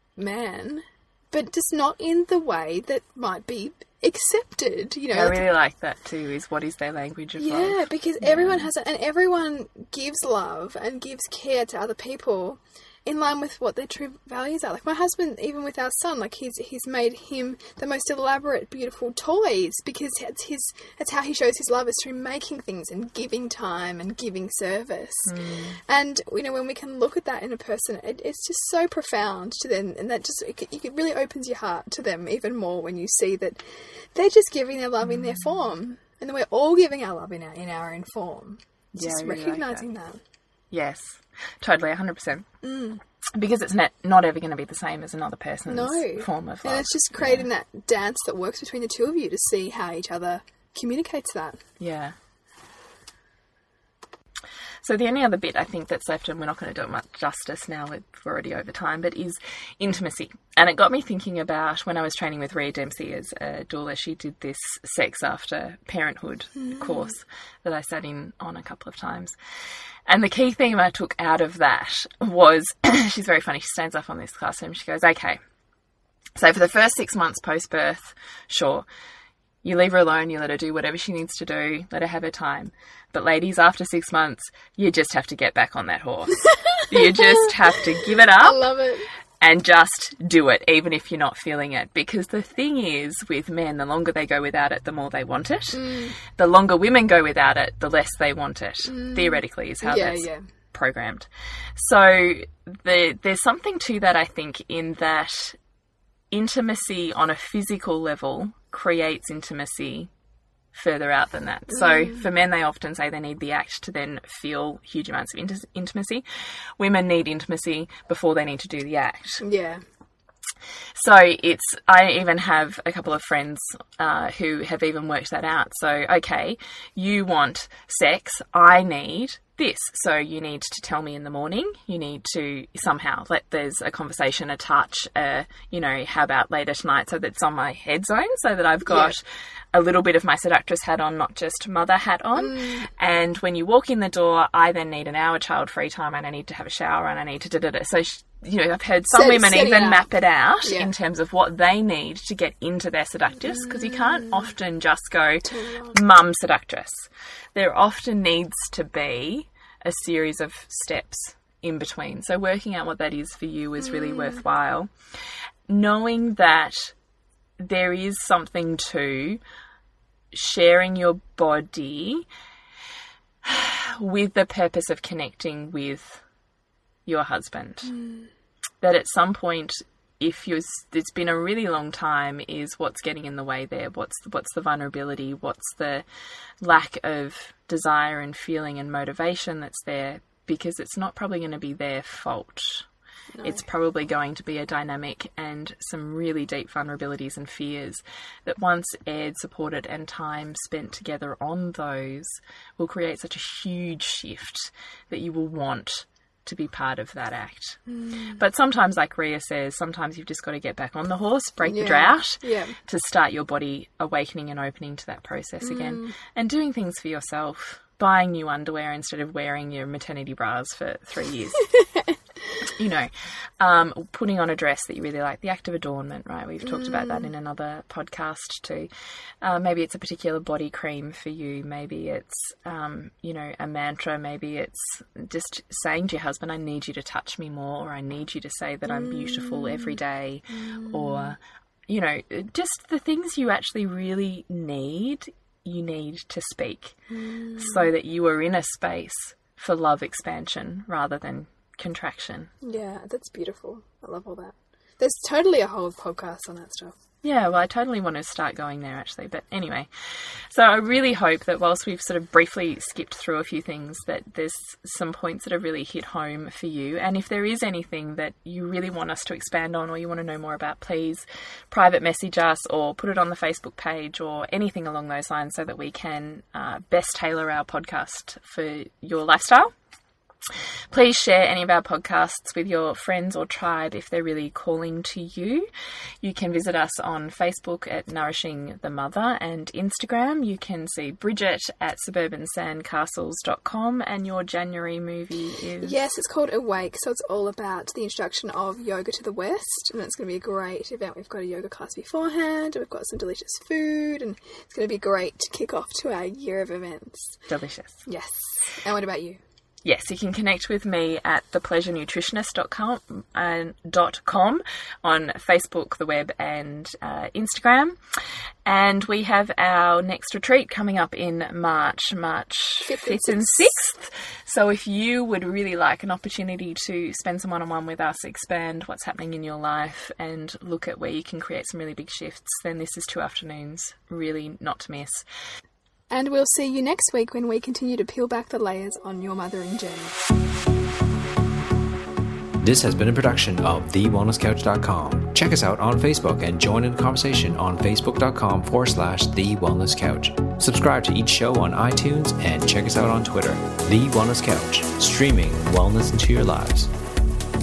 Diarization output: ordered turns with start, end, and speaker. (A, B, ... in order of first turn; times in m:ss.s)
0:00.2-0:05.4 A
0:05.1-0:08.7 B
0:07.4-0:25.3 A
0:25.3-0:25.8 B
0:25.9-0:33.6 A
0:34.1-0:40.2 A
0:35.1-0:35.5 B
0:39.0-0:39.8 B
0:40.7-0:42.5 B
0:42.6-0:43.0 A
0:43.4-0:47.5 B
0:45.7-0:51.6 A
0:51.8-0:52.2 B
0:54.8-1:09.4 B
1:06.6-1:07.1 A
1:10.1-1:15.4 B
1:16.4-1:18.8 B
1:19.6-1:28.7 B
1:28.4-1:29.1 A
1:29.4-1:45.6 B
1:35.7-1:36.2 A
1:38.8-1:40.4 A
1:46.3-1:50.1 B
1:50.7-1:56.2 B
1:51.8-1:52.2 A
1:56.8-1:59.4 B
1:59.4-1:59.8 A
2:01.0-2:44.9 B
2:18.9-2:19.2 A
2:22.4-2:22.9 A
2:29.1-2:30.1 A
2:30.6-2:30.9 A
2:33.6-2:34.4 A
2:35.4-2:36.0 A
2:44.0-2:44.4 A
2:45.7-2:46.9 B
2:47.6-2:49.4 B
2:50.3-2:52.2 B
2:53.4-2:56.2 B
2:57.1-2:57.9 B
2:57.9-2:58.3 A
2:58.8-3:06.0 B
3:06.6-3:12.8 B
3:13.3-3:13.6 A
3:13.4-3:27.8 B
3:27.9-3:28.4 A
3:28.4-3:41.7 B
3:31.6-3:32.8 A
3:35.6-3:36.2 A
3:42.7-3:48.9 B
3:46.6-3:47.3 A
3:49.4-4:07.0 B
3:58.9-4:00.0 A
4:00.5-4:01.3 A
4:07.1-4:07.9 A
4:07.6-4:12.5 B
4:12.6-4:17.0 A
4:17.2-4:19.9 B
4:20.5-4:39.7 B
4:40.9-4:45.7 B
4:46.2-4:56.0 B
4:55.8-5:07.4 A
5:07.5-5:08.0 B
5:08.1-5:09.4 A
5:09.8-5:18.0 B
5:18.7-5:35.2 B
5:22.8-5:23.8 A
5:36.1-5:40.2 A
5:42.6-5:56.9 C